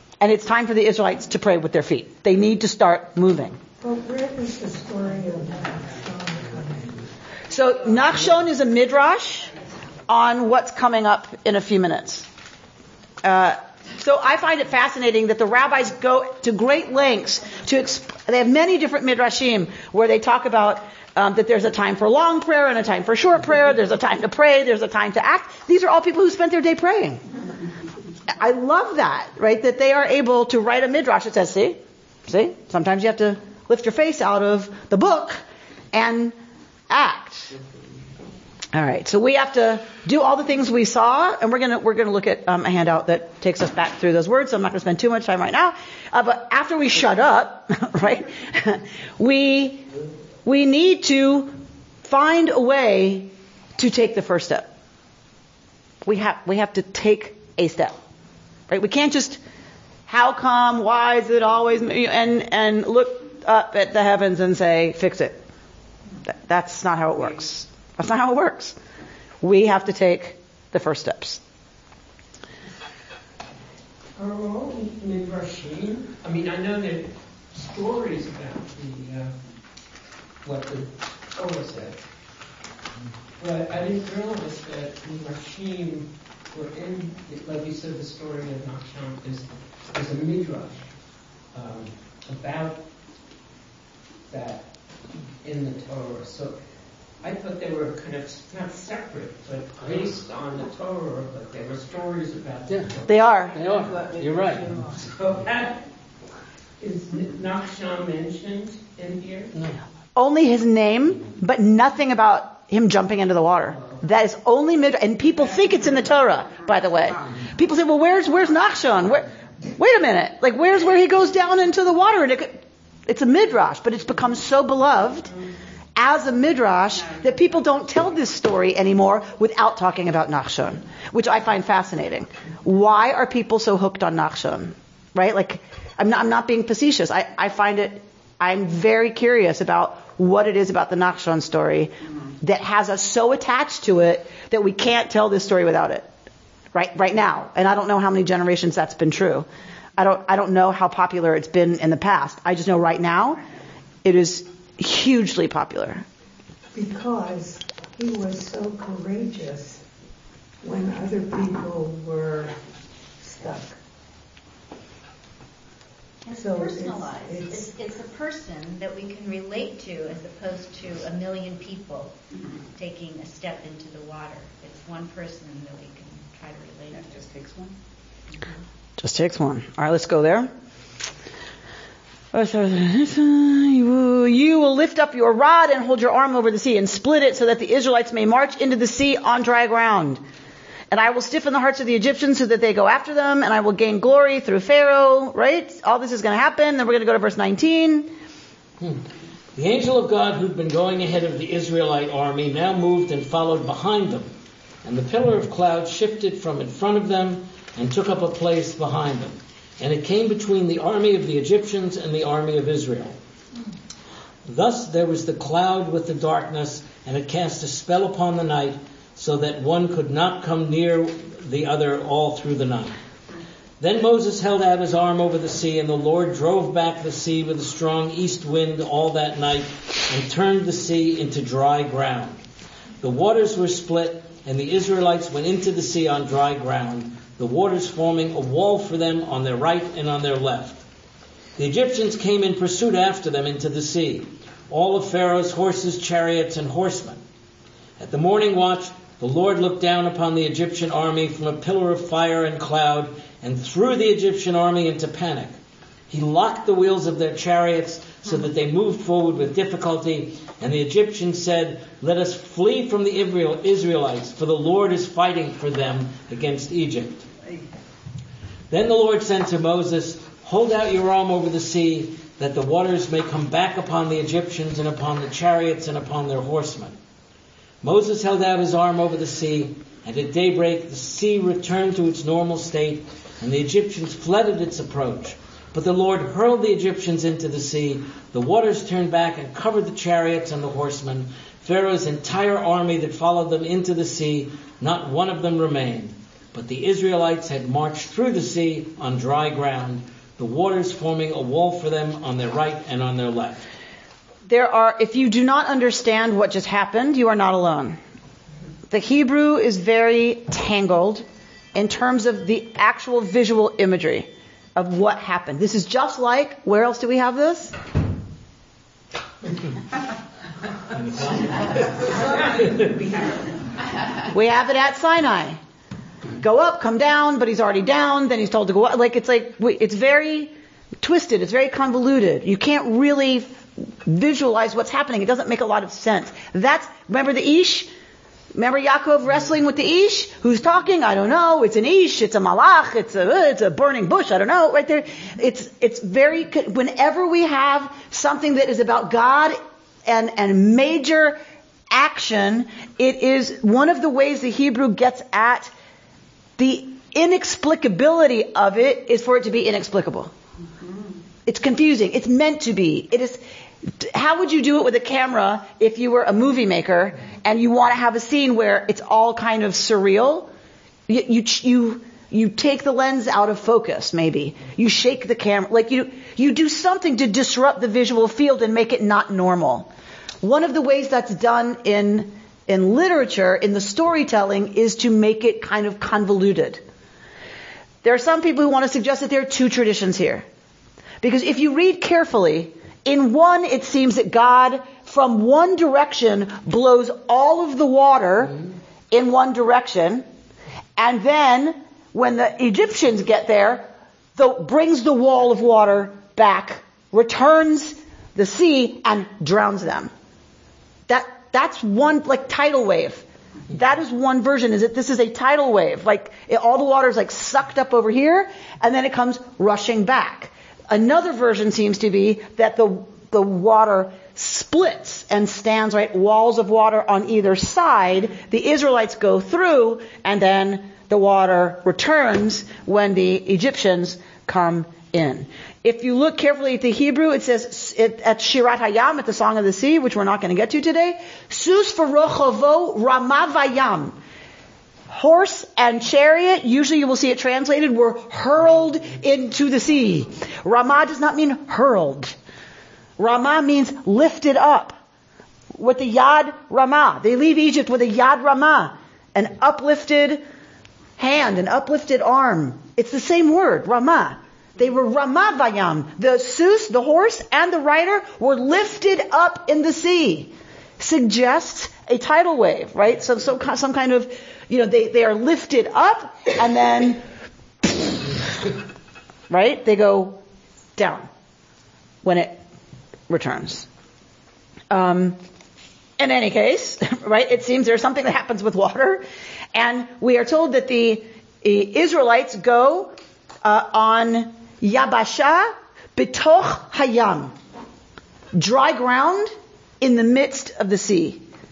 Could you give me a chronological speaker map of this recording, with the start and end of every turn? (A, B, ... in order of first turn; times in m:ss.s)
0:00.2-0:03.6 A
0:03.8-0:06.9 B
0:07.5-0:09.5 A
0:10.1-0:12.3 A
0:13.2-0:27.2 A
0:28.4-0:36.4 A
0:36.9-0:37.5 A
0:38.7-0:49.8 A
0:50.4-0:51.5 A
0:52.0-0:54.7 A
0:56.0-0:58.0 A
0:58.7-0:59.4 A
1:00.1-1:05.4 A
1:06.3-1:08.8 A
1:09.4-1:11.4 A
1:14.2-1:19.3 C
1:20.4-1:22.0 C
1:23.4-1:30.8 C
1:31.5-1:32.8 C
1:34.3-1:34.7 C
1:35.4-1:36.6 C
1:37.2-1:43.6 C
1:42.7-1:43.0 D
1:43.1-1:43.6 A
1:43.5-1:44.6 D
1:45.0-1:45.8 C
1:46.8-1:49.6 C
1:50.2-2:05.3 A
2:06.0-2:26.1 A
2:26.7-2:33.4 A
2:34.0-2:36.0 A
2:36.7-2:39.8 B
2:40.6-2:42.5 B
2:43.2-2:43.8 B
2:46.2-2:52.1 E
2:46.3-2:47.7 B
2:52.7-2:57.5 E
2:59.0-3:00.5 A
3:02.3-3:10.2 A
3:10.9-3:18.1 A
3:19.5-3:24.3 D
3:24.8-3:33.2 D
3:34.4-3:43.0 D
3:43.8-3:52.4 D
3:53.0-4:00.8 D
4:01.6-4:07.2 D
4:08.0-4:15.6 D
4:16.1-4:27.2 D
4:28.7-4:36.9 D
4:37.8-5:03.6 D
5:04.5-5:08.0 A
5:08.9-5:17.7 A
5:21.0-5:21.9 D
5:22.5-5:22.9 D
5:24.3-5:25.6 A
5:26.4-5:37.9 A
5:38.5-5:51.4 A
5:51.9-5:55.7 A
5:56.6-6:00.3 A
6:01.4-6:10.5 A
6:11.1-6:19.9 A
6:20.4-6:26.8 A
6:28.0-6:30.4 A
6:31.2-6:38.6 A
6:39.1-6:40.2 A
6:41.0-6:50.1 A
6:51.1-7:24.2 A
7:25.1-7:32.4 A
7:33.2-7:35.0 A
7:35.7-7:40.4 A
7:41.2-7:57.2 A
7:57.8-7:58.3 A
7:59.5-8:00.4 A
8:01.0-8:01.3 A
8:02.2-8:02.6 A
8:03.3-8:03.9 A
8:04.9-8:05.4 A
8:06.2-8:13.1 A
8:13.6-8:17.5 A
8:18.6-8:21.4 A